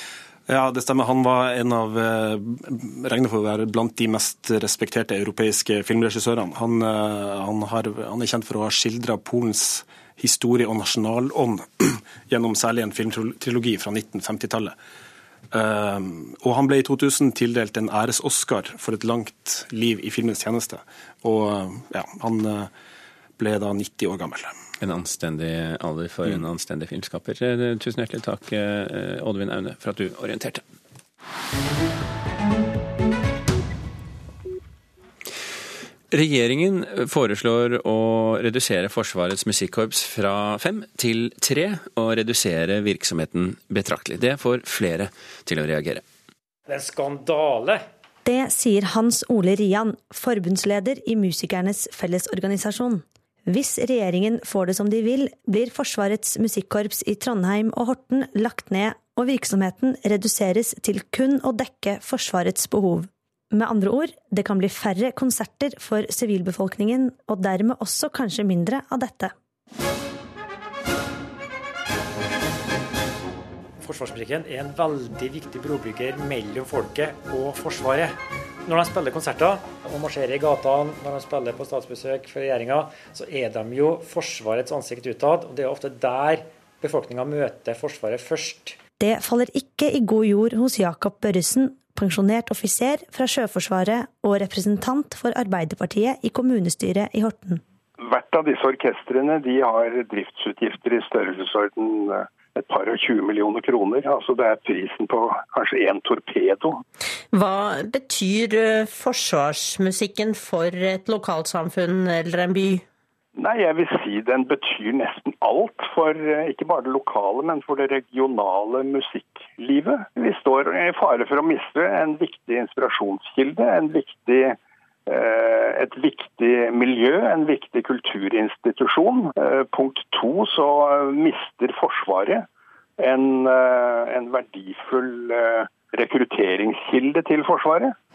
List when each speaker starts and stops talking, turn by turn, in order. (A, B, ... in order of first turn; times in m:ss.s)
0:00.5-0:14.8 A
0:15.5-0:22.7 A
0:23.4-0:24.5 A
0:24.8-0:30.6 B
0:36.1-0:46.0 B
0:46.7-0:47.8 C
0:48.2-1:09.3 D
1:13.8-1:28.8 C
1:29.0-1:37.6 D
1:38.0-1:46.8 E
1:47.3-1:52.8 F
1:53.4-2:04.6 E
2:05.1-2:12.4 E
2:13.0-2:17.9 E